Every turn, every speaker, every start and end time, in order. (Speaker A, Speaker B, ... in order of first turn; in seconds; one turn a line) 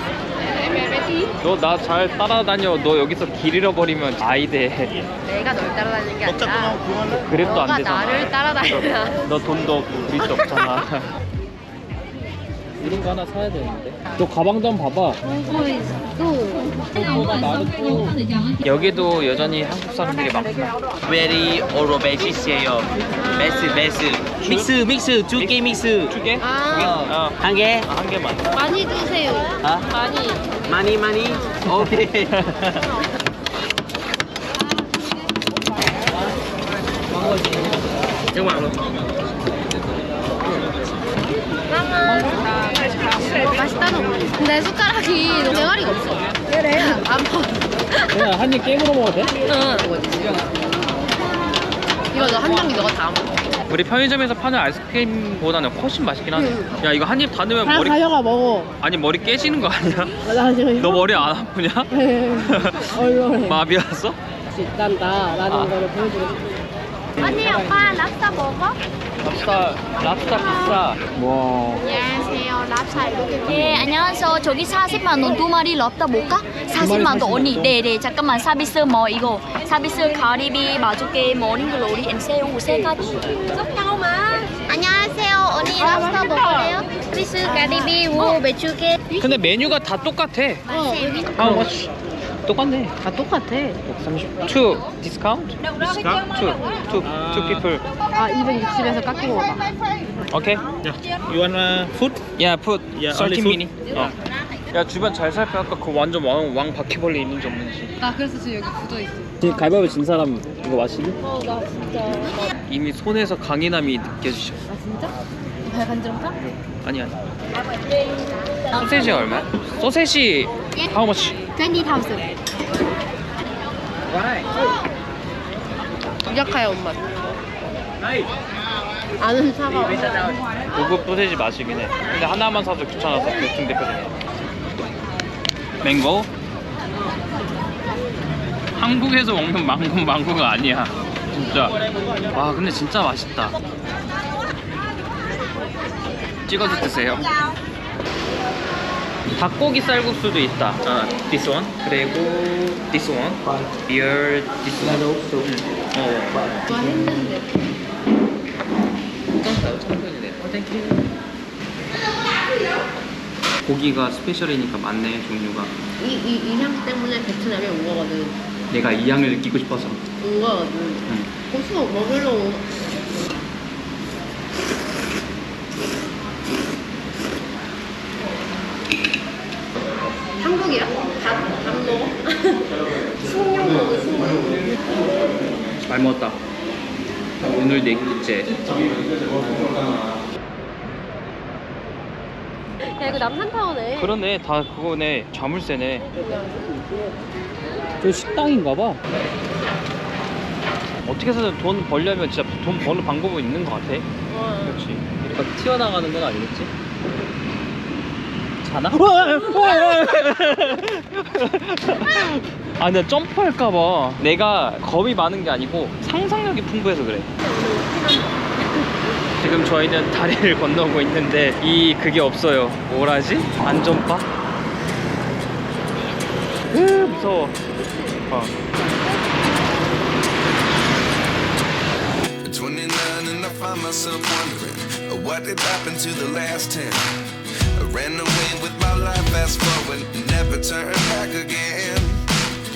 Speaker A: 0.7-1.3
Speaker B: 1.4-5.0
Speaker A: 5.2-6.8
Speaker B: 7.2-11.1
Speaker A: 7.4-9.3
Speaker B: 12.8-15.2
Speaker A: 15.2-17.1
Speaker B: 16.9-20.7
Speaker C: 21.0-26.1
Speaker A: 23.1-24.0
Speaker B: 24.4-24.8
Speaker B: 25.3-28.5
Speaker A: 26.4-27.0
Speaker C: 26.7-27.9
Speaker A: 28.5-30.5
Speaker C: 30.7-32.4
Speaker A: 31.2-31.6
Speaker B: 31.8-32.8
Speaker A: 32.7-33.1
Speaker C: 38.3-38.8
Speaker A: 41.7-42.6
Speaker A: 43.2-48.3
Speaker B: 48.1-49.3
Speaker A: 49.4-50.7
Speaker A: 52.1-53.5
Speaker B: 53.7-58.0
Speaker A: 56.3-56.8
Speaker A: 57.6-58.7
Speaker B: 58.8-60.2
Speaker A: 60.2-61.3
Speaker B: 60.8-64.2
Speaker A: 61.9-63.6
Speaker A: 64.5-66.4
Speaker B: 65.5-65.7
Speaker D: 67.2-68.8
Speaker A: 67.2-67.5
Speaker B: 69.2-71.9
Speaker D: 71.8-73.5
Speaker E: 73.4-83.2
Speaker B: 76.8-77.7
Speaker D: 83.3-89.0
Speaker A: 85.8-86.7
Speaker B: 89.2-90.6
Speaker A: 90.7-91.7
Speaker D: 90.7-91.3
Speaker B: 91.3-91.9
Speaker B: 92.5-93.0
Speaker A: 93.0-93.8
Speaker B: 93.8-97.8
Speaker C: 97.0-97.6
Speaker A: 98.1-99.7
Speaker B: 100.3-100.6
Speaker C: 100.8-102.3
Speaker B: 102.4-104.1
Speaker C: 103.0-103.7
Speaker B: 104.7-107.9
Speaker A: 108.0-109.4
Speaker B: 109.4-111.2
Speaker A: 111.2-112.5
Speaker B: 112.7-114.6
Speaker A: 114.7-116.4
Speaker B: 116.4-117.2
Speaker B: 118.7-121.4
Speaker D: 121.5-122.3
Speaker A: 126.2-127.3
Speaker A: 129.2-130.3
Speaker C: 129.9-130.2
Speaker B: 130.7-134.2
Speaker B: 135.8-136.3
Speaker B: 138.8-141.8
Speaker B: 142.3-143.6
Speaker B: 146.5-147.3
Speaker B: 149.3-156.3
Speaker C: 151.0-151.7
Speaker C: 154.8-155.5
Speaker A: 156.7-157.5
Speaker B: 159.4-161.0
Speaker B: 163.6-165.8
Speaker A: 166.0-168.4
Speaker B: 168.7-170.0
Speaker A: 170.2-172.7
Speaker A: 180.4-184.8
Speaker B: 185.8-186.4
Speaker B: 187.4-189.8
Speaker A: 192.8-194.1
Speaker B: 194.0-196.1
Speaker A: 196.0-197.1
Speaker B: 198.0-199.0
Speaker B: 201.0-204.1
Speaker A: 204.3-204.8
Speaker B: 204.6-206.7
Speaker B: 208.6-217.3
Speaker A: 217.4-219.0
Speaker B: 219.4-224.3
Speaker B: 226.7-227.6
Speaker F: 232.4-237.1
Speaker F: 237.8-242.2